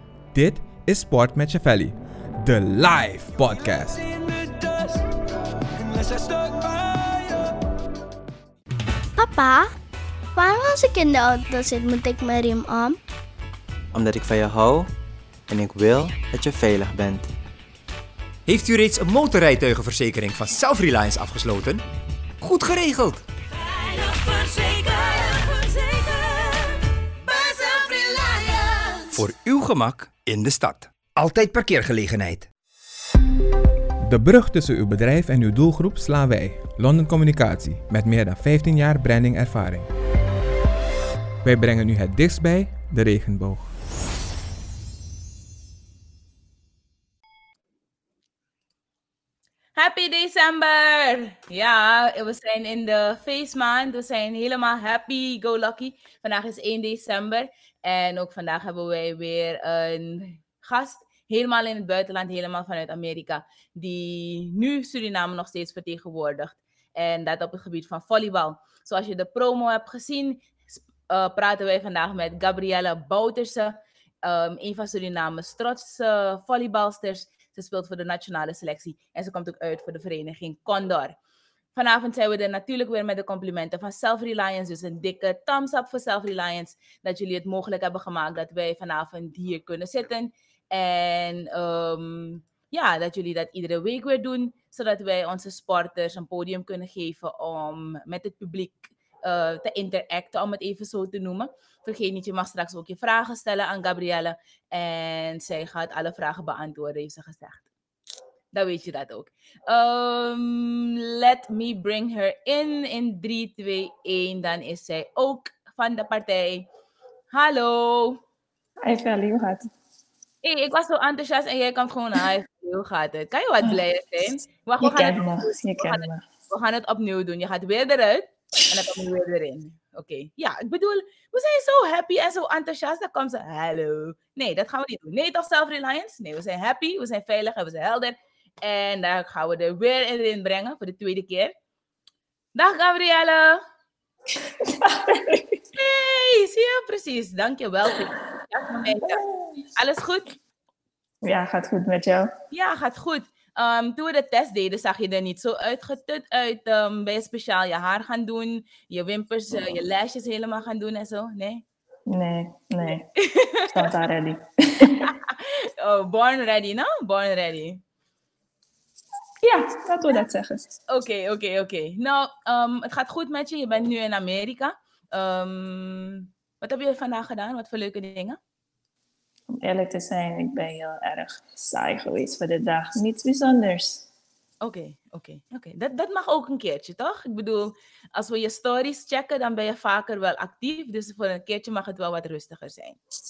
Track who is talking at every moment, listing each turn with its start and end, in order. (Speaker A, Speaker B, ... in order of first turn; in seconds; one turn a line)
Speaker A: 0.3-4.9
Speaker B: 9.2-9.7
Speaker B: 10.3-13.0
Speaker C: 13.9-14.9
Speaker C: 15.5-17.3
Speaker D: 18.4-21.8
Speaker D: 22.4-23.2
Speaker E: 24.5-26.4
Speaker E: 28.2-28.6
Speaker D: 29.1-32.5
Speaker A: 34.0-39.9
Speaker A: 41.4-43.6
Speaker F: 49.8-81.2
Speaker F: 81.7-107.7
Speaker F: 108.5-116.7
Speaker F: 117.3-118.2
Speaker G: 118.8-119.7
Speaker F: 120.4-141.5
Speaker G: 124.8-126.2
Speaker F: 142.5-143.6
Speaker G: 144.6-145.6
Speaker F: 145.8-149.2
Speaker G: 149.0-149.6
Speaker F: 149.8-150.3
Speaker G: 151.2-152.3
Speaker F: 152.5-161.6
Speaker G: 162.1-163.1
Speaker F: 163.2-163.9
Speaker G: 163.7-165.1
Speaker F: 164.8-167.8
Speaker G: 169.4-170.6
Speaker F: 170.9-178.4
Speaker G: 179.5-184.1
Speaker F: 184.6-193.0